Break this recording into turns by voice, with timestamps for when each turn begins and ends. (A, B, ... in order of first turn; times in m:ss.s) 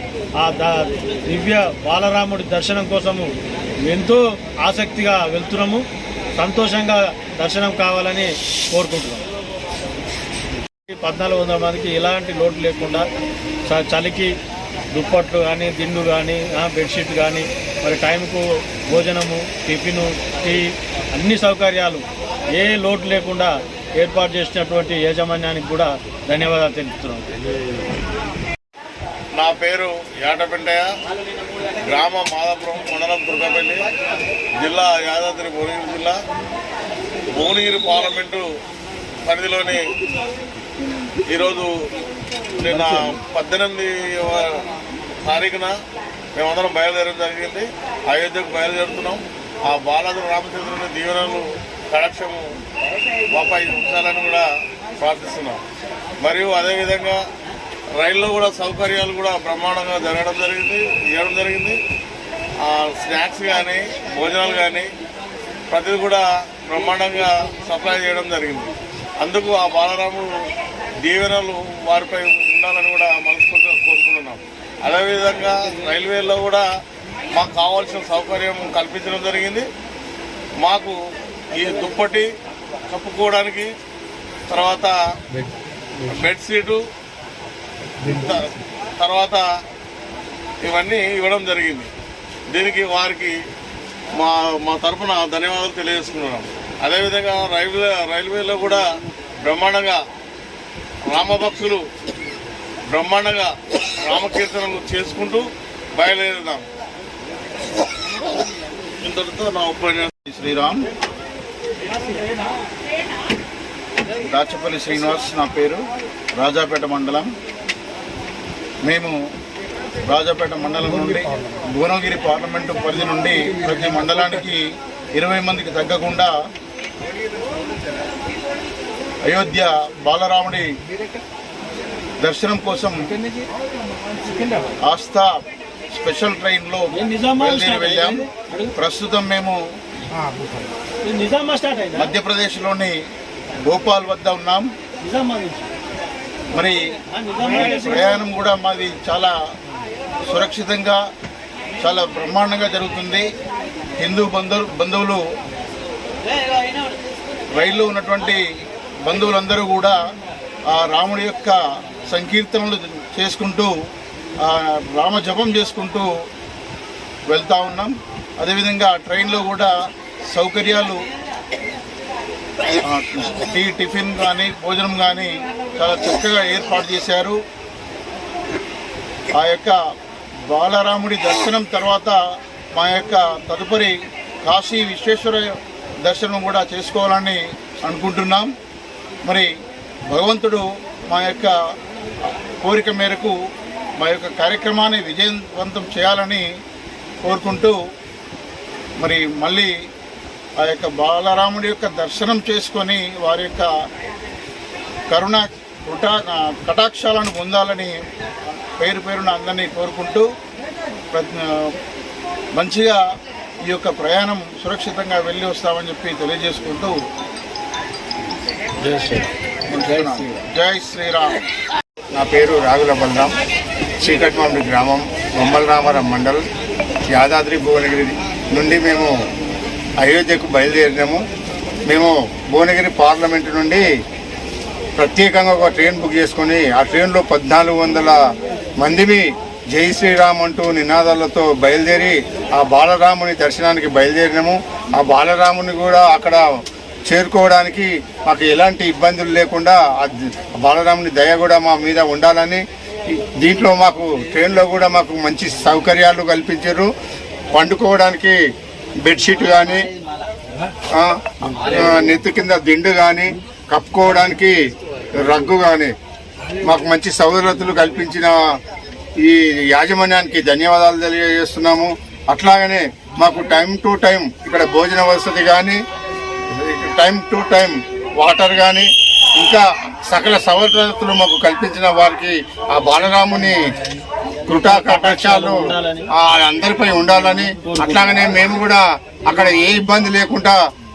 0:00.4-0:03.3 A
0:03.8-0:05.8 A
0:06.4-0:09.2 A
0:10.9-0:13.0 A
0:13.7-0:14.3 A
0:14.9-0:27.3 A
0:29.3-0:30.9 B
0:31.8-0:33.9 B
0:34.6-0:36.2 B
0:37.3-0:38.5 B
0:39.2-0:39.9 B
0:41.3-0:41.7 B
0:42.6-0:44.6 B
0:45.2-0:45.8 B
0:46.4-0:52.4 B
0:53.3-0:54.5 B
0:55.0-0:55.6 B
0:56.2-0:57.2 B
0:58.0-1:01.8 B
1:02.6-1:04.8 B
1:05.7-1:10.3 B
1:11.0-1:16.6 B
1:17.3-1:19.7 B
1:20.6-1:21.0 B
1:21.5-1:22.3 B
1:22.9-1:23.7 B
1:24.5-1:25.0 B
1:26.1-1:26.8 B
1:28.0-1:28.4 B
1:29.0-1:29.5 B
1:30.6-1:31.9 B
1:32.5-1:33.3 B
1:34.2-1:38.8 B
1:39.4-1:40.0 B
1:41.1-1:41.8 B
1:42.9-1:46.6 B
1:49.0-1:50.1 B
1:50.3-1:50.8 C
1:54.2-1:55.8 C
1:56.4-1:57.3 C
1:58.8-1:59.2 C
2:00.0-2:04.6 C
2:05.2-2:06.3 C
2:09.3-2:10.7 C
2:12.2-2:13.1 C
2:14.9-2:15.3 C
2:15.9-2:16.9 C
2:16.9-2:18.3 A
2:17.4-2:18.2 C
2:18.7-2:19.6 C
2:21.0-2:22.1 A
2:22.0-2:22.9 C
2:23.7-2:24.7 C
2:25.0-2:25.6 A
2:26.5-2:26.9 C
2:27.2-2:28.2 A
2:27.6-2:29.3 C
2:30.3-2:31.0 C
2:31.8-2:33.3 C
2:34.0-2:35.2 C
2:37.6-2:38.4 C
2:39.1-2:40.0 C
2:40.7-2:43.7 C
2:44.4-2:46.1 C
2:47.3-2:49.7 C
2:50.3-2:51.0 C
2:52.8-2:57.4 C
2:59.4-2:59.8 C
3:00.4-3:02.1 C
3:02.8-3:08.5 C
3:10.1-3:11.6 C
3:12.6-3:13.4 C
3:14.0-3:16.4 C
3:17.2-3:17.8 C
3:19.0-3:19.7 C
3:20.6-3:23.7 C
3:25.1-3:28.0 C
3:28.8-3:30.3 C
3:31.1-3:31.7 C
3:32.5-3:33.0 C
3:33.7-3:37.0 C
3:39.7-3:41.4 C
3:42.1-3:43.4 D
3:44.0-3:46.4 D
3:47.1-3:49.2 D
3:50.0-3:51.2 D
3:51.9-3:53.8 D
3:55.0-3:58.2 D
3:58.8-4:06.4 D
4:07.1-4:16.9 D
4:17.5-4:18.4 D
4:19.0-4:19.8 D
4:20.9-4:24.6 D
4:25.1-4:25.9 D
4:26.6-4:28.4 D
4:29.2-4:35.8 D
4:36.5-4:43.6 D
4:44.5-4:50.6 D
4:44.6-4:46.1 A
4:47.2-4:48.1 A